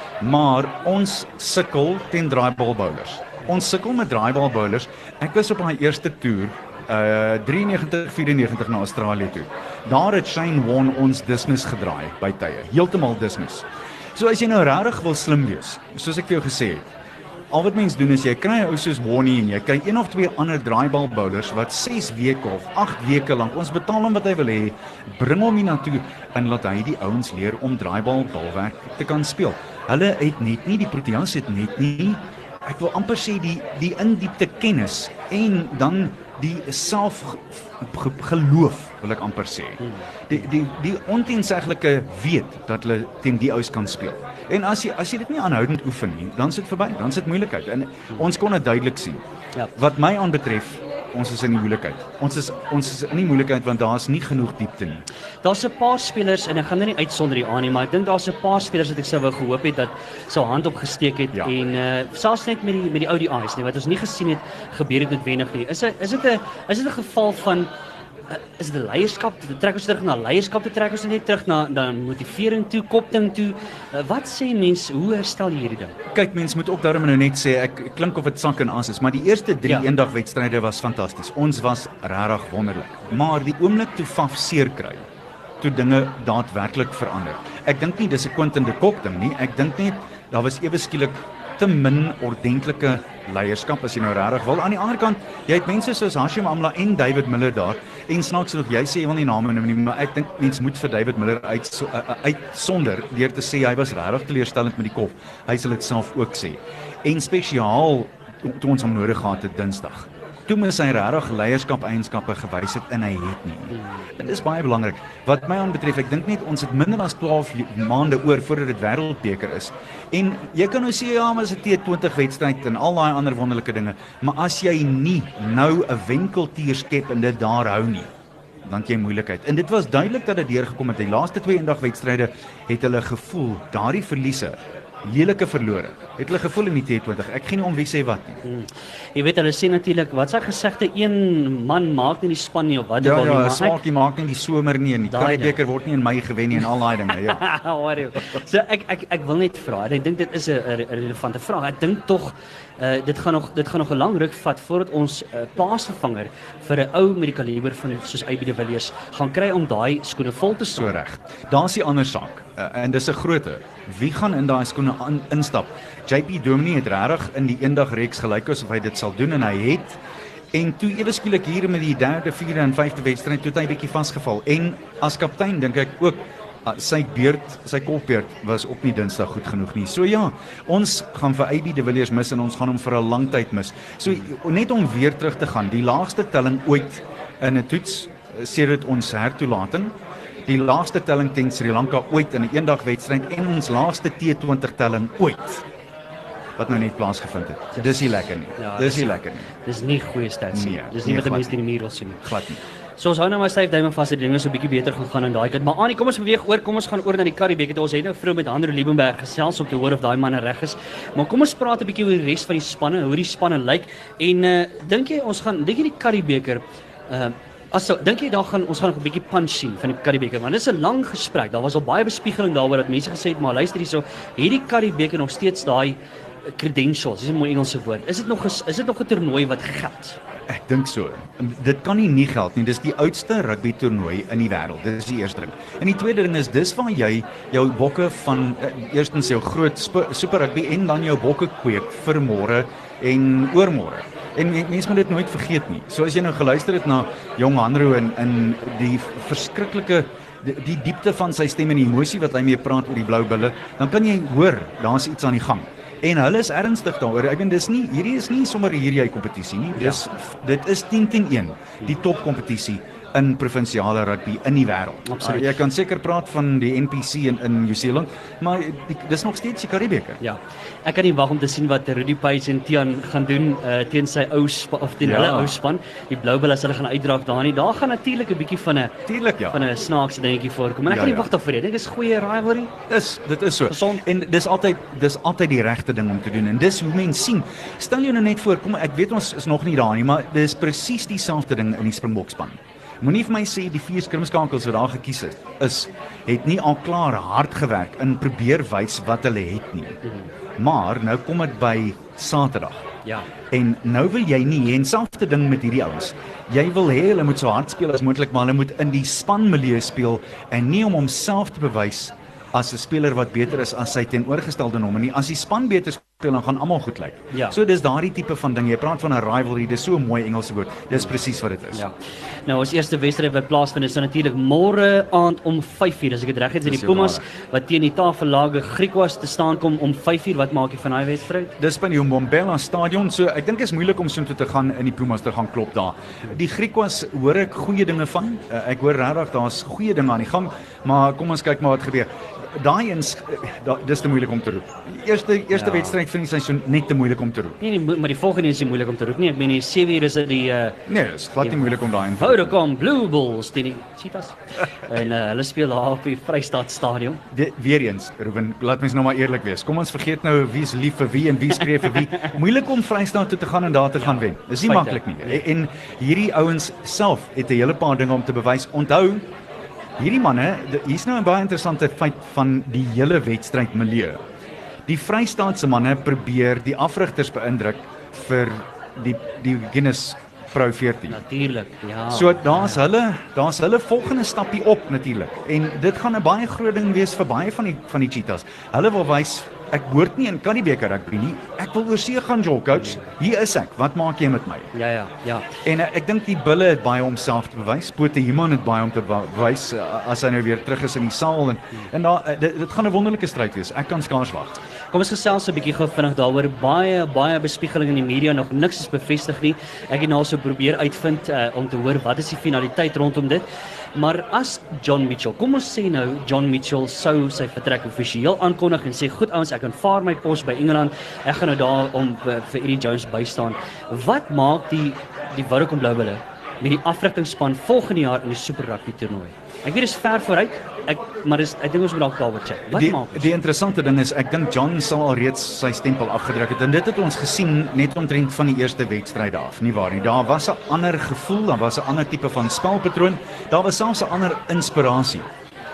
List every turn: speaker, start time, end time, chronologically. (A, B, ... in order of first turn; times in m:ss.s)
0:00.2-0:16.8 A
0:17.5-0:49.2 A
0:49.8-0:55.0 A
0:55.4-1:07.7 B
1:08.3-1:16.0 B
1:16.1-1:25.1 A
1:25.6-2:08.1 A
2:08.6-2:18.4 A
2:18.4-2:23.8 B
2:23.0-2:27.4 A
2:25.1-2:25.6 B
2:27.3-2:40.9 B
2:40.8-2:50.0 A
2:50.5-3:15.6 A
3:16.6-3:19.5 A
3:18.6-3:22.2 B
3:20.5-3:21.6 A
3:22.2-3:22.6 A
3:23.0-3:46.0 B
3:46.5-3:50.2 B
3:50.5-4:30.2 A
4:25.0-4:25.5 B
4:30.2-4:38.9 B
4:35.0-4:35.6 A
4:39.1-4:39.6 A
4:39.5-4:42.7 B
4:40.9-4:41.3 A
4:42.9-5:00.0 A
4:43.7-4:44.0 B
5:00.0-5:00.3 B
5:00.6-5:02.8 A
5:03.5-5:21.8 A
5:22.5-5:31.5 B
5:26.6-5:27.2 A
5:31.6-5:47.6 A
5:45.5-5:45.9 B
5:47.6-5:50.8 B
5:50.9-5:52.6 A
5:51.4-5:57.2 B
5:57.3-6:09.3 A
6:04.0-6:05.4 B
6:10.0-6:14.2 A
6:14.9-6:21.2 A
6:21.1-6:22.8 B
6:22.1-6:34.7 A
6:32.7-6:33.0 B
6:34.7-6:35.5 B
6:35.6-6:44.6 A
6:44.9-7:13.3 B
7:12.7-7:25.3 A